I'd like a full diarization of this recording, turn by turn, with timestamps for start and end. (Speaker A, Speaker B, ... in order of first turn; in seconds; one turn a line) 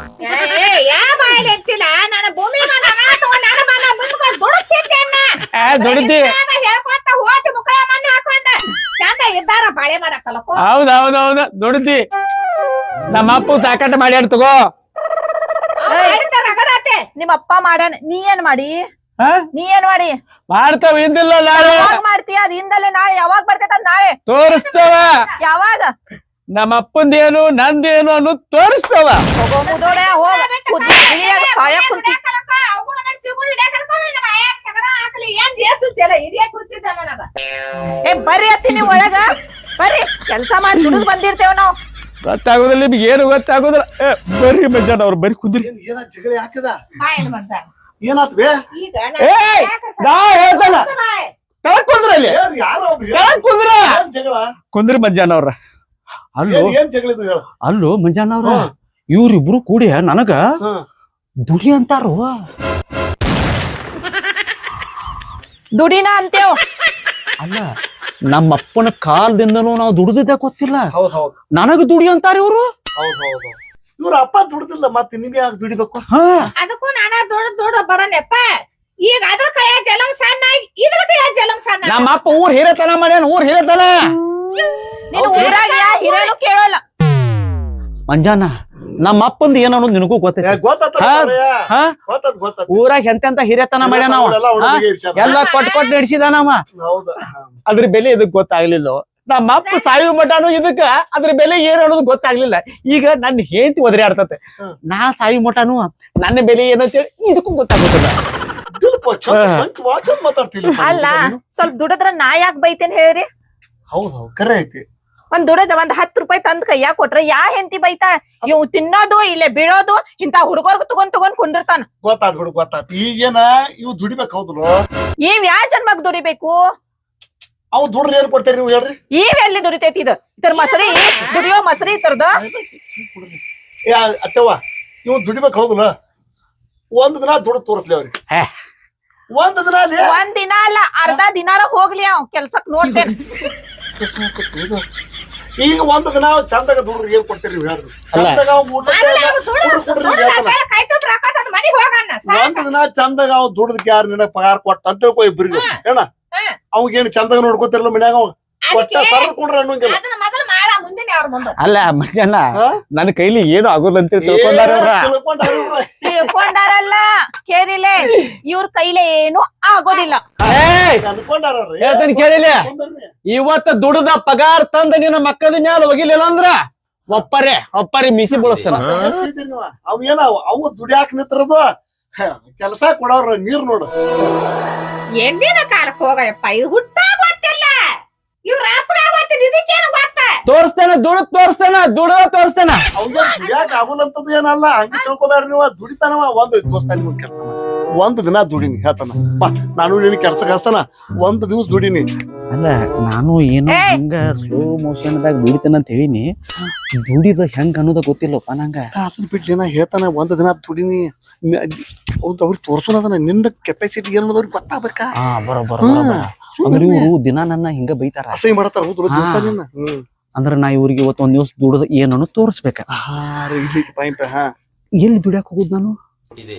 Speaker A: 0.2-10.7
Speaker B: 5.5-6.3
Speaker B: 10.6-12.0
Speaker B: 13.1-14.7
Speaker A: 15.8-17.1
Speaker C: 15.9-16.2
Speaker C: 17.1-18.8
Speaker B: 19.2-19.5
Speaker C: 19.5-20.1
Speaker B: 20.5-22.0
Speaker C: 21.5-24.2
Speaker B: 24.3-25.1
Speaker A: 24.5-25.4
Speaker C: 25.4-25.9
Speaker B: 26.5-29.2
Speaker C: 29.4-32.2
Speaker A: 29.6-37.3
Speaker C: 38.0-39.3
Speaker C: 39.8-41.8
Speaker B: 42.2-45.7
Speaker D: 45.6-46.8
Speaker A: 47.0-47.7
Speaker D: 48.0-48.5
Speaker A: 48.7-51.3
Speaker B: 49.2-50.9
Speaker B: 51.6-52.4
Speaker D: 52.2-54.5
Speaker B: 53.1-54.0
Speaker B: 54.7-55.5
Speaker B: 56.4-56.7
Speaker D: 56.5-57.4
Speaker B: 57.6-60.4
Speaker D: 58.4-58.7
Speaker B: 61.5-62.3
Speaker C: 65.7-66.6
Speaker B: 67.4-67.7
Speaker B: 68.3-70.9
Speaker D: 70.9-71.3
Speaker B: 71.5-72.7
Speaker D: 73.0-76.0
Speaker B: 76.1-76.5
Speaker A: 76.6-78.5
Speaker A: 79.0-82.2
Speaker B: 81.8-84.0
Speaker A: 85.1-86.3
Speaker C: 85.1-86.8
Speaker B: 85.1-85.6
Speaker B: 88.1-91.9
Speaker D: 90.4-92.8
Speaker B: 92.7-96.6
Speaker D: 93.8-95.4
Speaker A: 95.2-96.0
Speaker D: 96.8-97.6
Speaker B: 97.7-104.4
Speaker A: 99.6-99.9
Speaker B: 104.9-108.2
Speaker D: 108.7-111.4
Speaker B: 109.3-109.6
Speaker C: 110.7-113.3
Speaker D: 113.9-114.8
Speaker C: 115.3-121.8
Speaker D: 122.0-124.8
Speaker C: 125.2-126.6
Speaker D: 127.7-128.9
Speaker C: 129.1-132.4
Speaker A: 130.5-131.6
Speaker D: 132.3-135.9
Speaker D: 136.9-138.2
Speaker D: 139.3-140.2
Speaker C: 140.0-143.2
Speaker D: 144.0-144.8
Speaker D: 145.6-150.6
Speaker B: 148.1-148.4
Speaker A: 148.8-152.6
Speaker D: 152.2-156.1
Speaker A: 155.5-155.8
Speaker D: 156.7-160.0
Speaker A: 158.7-161.6
Speaker B: 161.6-165.1
Speaker D: 164.2-166.3
Speaker C: 166.0-170.2
Speaker D: 170.4-173.1
Speaker B: 170.4-171.1
Speaker B: 171.8-172.7
Speaker B: 173.3-176.6
Speaker B: 177.1-178.9
Speaker D: 178.7-181.7
Speaker D: 182.2-183.9
Speaker A: 185.2-187.9
Speaker A: 188.4-190.3
Speaker B: 190.4-192.8
Speaker D: 192.9-202.0
Speaker A: 193.1-193.8
Speaker B: 202.5-206.3
Speaker C: 203.7-204.0
Speaker B: 206.9-208.8
Speaker D: 209.0-215.1
Speaker B: 215.2-218.4
Speaker D: 215.8-217.1
Speaker D: 218.3-220.0
Speaker B: 219.1-219.5
Speaker B: 220.3-222.8
Speaker D: 222.9-224.4
Speaker B: 225.0-225.9